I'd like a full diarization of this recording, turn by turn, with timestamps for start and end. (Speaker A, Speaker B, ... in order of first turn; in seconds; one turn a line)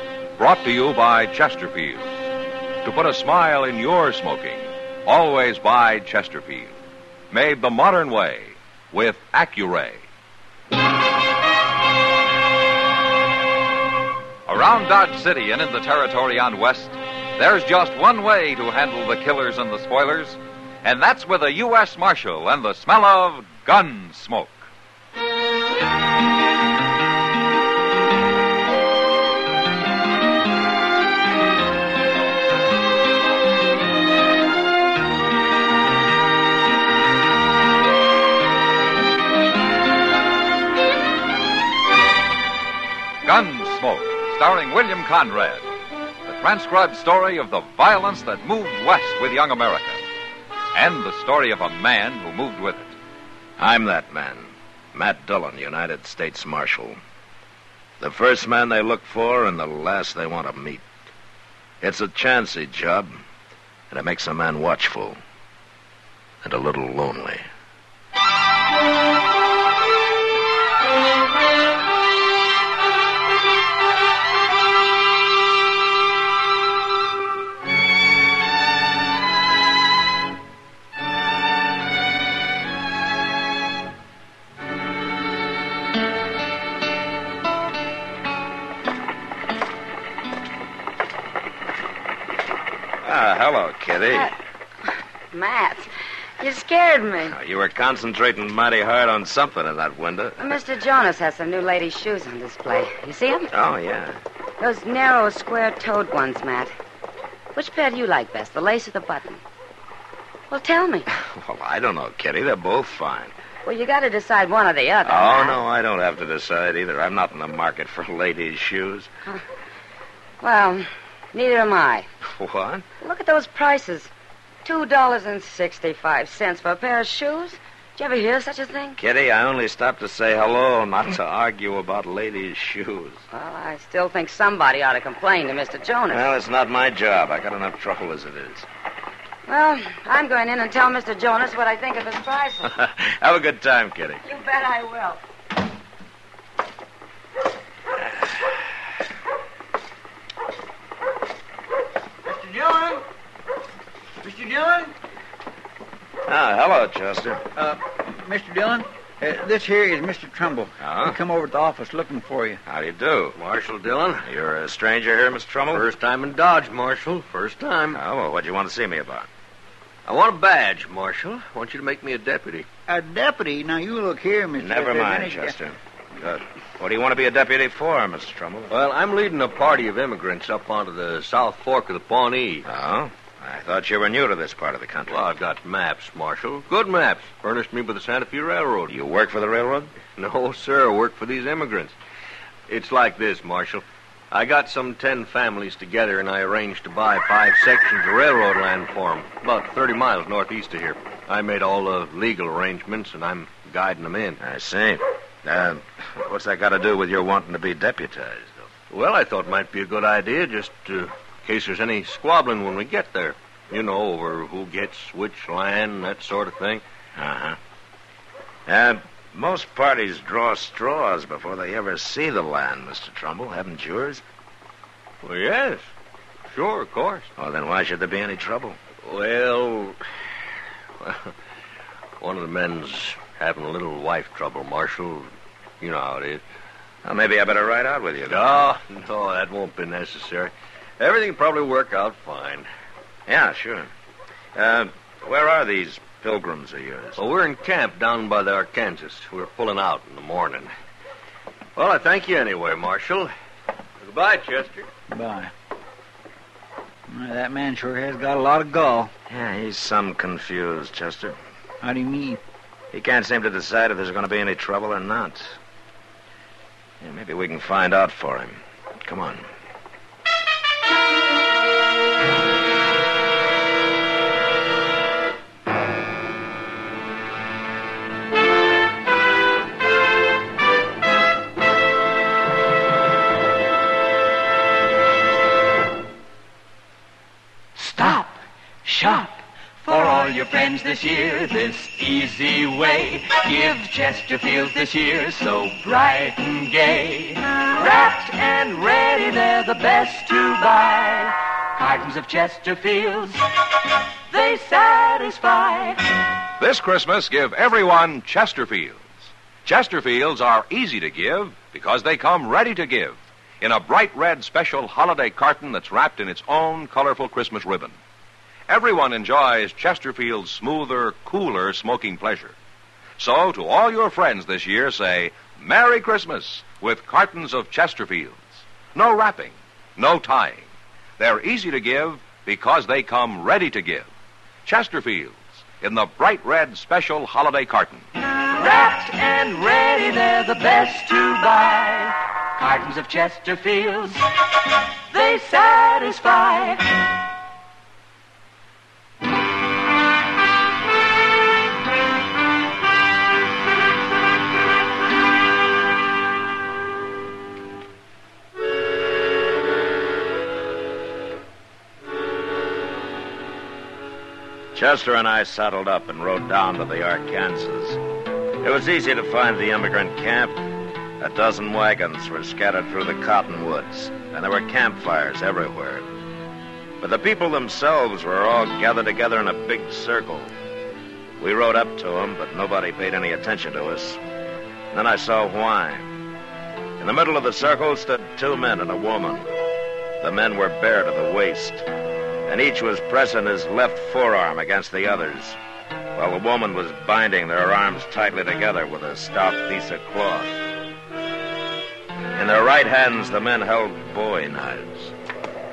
Speaker A: 0.4-2.1
Speaker A: 2.8-6.7
Speaker A: 7.3-10.1
Speaker B: 14.5-24.7
Speaker B: 43.2-45.7
Speaker B: 46.3-50.0
Speaker B: 50.7-52.9
Speaker C: 53.6-57.0
Speaker C: 58.0-60.9
Speaker C: 61.8-63.2
Speaker C: 63.9-65.2
Speaker C: 66.4-67.5
Speaker C: 93.0-94.3
Speaker D: 95.3-95.9
Speaker D: 96.4-97.3
Speaker C: 97.2-100.5
Speaker D: 100.4-103.5
Speaker C: 103.5-104.2
Speaker D: 104.6-106.7
Speaker D: 107.5-109.4
Speaker D: 110.5-111.1
Speaker C: 111.1-113.3
Speaker D: 113.7-115.6
Speaker C: 115.0-119.1
Speaker D: 120.4-122.1
Speaker C: 122.3-122.9
Speaker D: 123.0-124.1
Speaker D: 124.7-129.0
Speaker C: 129.0-133.2
Speaker D: 133.3-136.3
Speaker C: 136.1-138.7
Speaker D: 139.5-142.7
Speaker C: 142.7-144.3
Speaker D: 144.2-145.2
Speaker C: 148.0-148.3
Speaker E: 152.2-153.0
Speaker E: 154.2-154.9
Speaker C: 156.3-157.4
Speaker E: 157.6-162.6
Speaker C: 160.8-161.2
Speaker C: 162.7-163.4
Speaker F: 163.3-164.3
Speaker C: 164.2-165.9
Speaker F: 165.7-168.0
Speaker C: 167.9-169.3
Speaker F: 170.1-172.7
Speaker E: 172.9-175.6
Speaker C: 174.6-178.7
Speaker F: 178.7-182.7
Speaker C: 182.7-185.3
Speaker F: 185.1-188.9
Speaker C: 188.9-190.0
Speaker F: 190.2-191.9
Speaker F: 192.7-204.4
Speaker C: 204.4-208.7
Speaker F: 208.9-216.8
Speaker C: 217.2-217.6
Speaker C: 218.7-224.2
Speaker F: 225.2-225.9
Speaker F: 226.5-227.3
Speaker C: 227.4-228.8
Speaker F: 229.0-230.0
Speaker F: 231.0-231.3
Speaker F: 232.2-235.3
Speaker F: 235.8-236.4
Speaker C: 237.0-238.7
Speaker F: 238.3-242.7
Speaker C: 243.3-243.9
Speaker C: 244.6-247.2
Speaker F: 247.2-250.7
Speaker F: 251.8-253.3
Speaker F: 254.0-254.9
Speaker E: 255.1-255.5
Speaker E: 257.1-259.1
Speaker C: 259.3-261.4
Speaker E: 261.8-262.4
Speaker C: 262.9-265.6
Speaker C: 267.0-269.5
Speaker G: 287.8-303.4
Speaker G: 304.3-306.1
Speaker A: 306.6-318.0
Speaker A: 318.7-322.6
Speaker A: 323.2-330.7
Speaker A: 331.2-334.1
Speaker A: 334.6-338.1
Speaker G: 338.5-344.3
Speaker G: 345.1-347.0
Speaker C: 364.7-368.0
Speaker C: 368.6-370.6
Speaker C: 371.2-376.1
Speaker C: 377.0-380.5
Speaker C: 381.4-384.2
Speaker C: 384.9-386.1
Speaker C: 387.0-389.5
Speaker C: 390.2-391.9
Speaker C: 392.5-395.6
Speaker C: 396.1-400.7
Speaker C: 402.4-405.1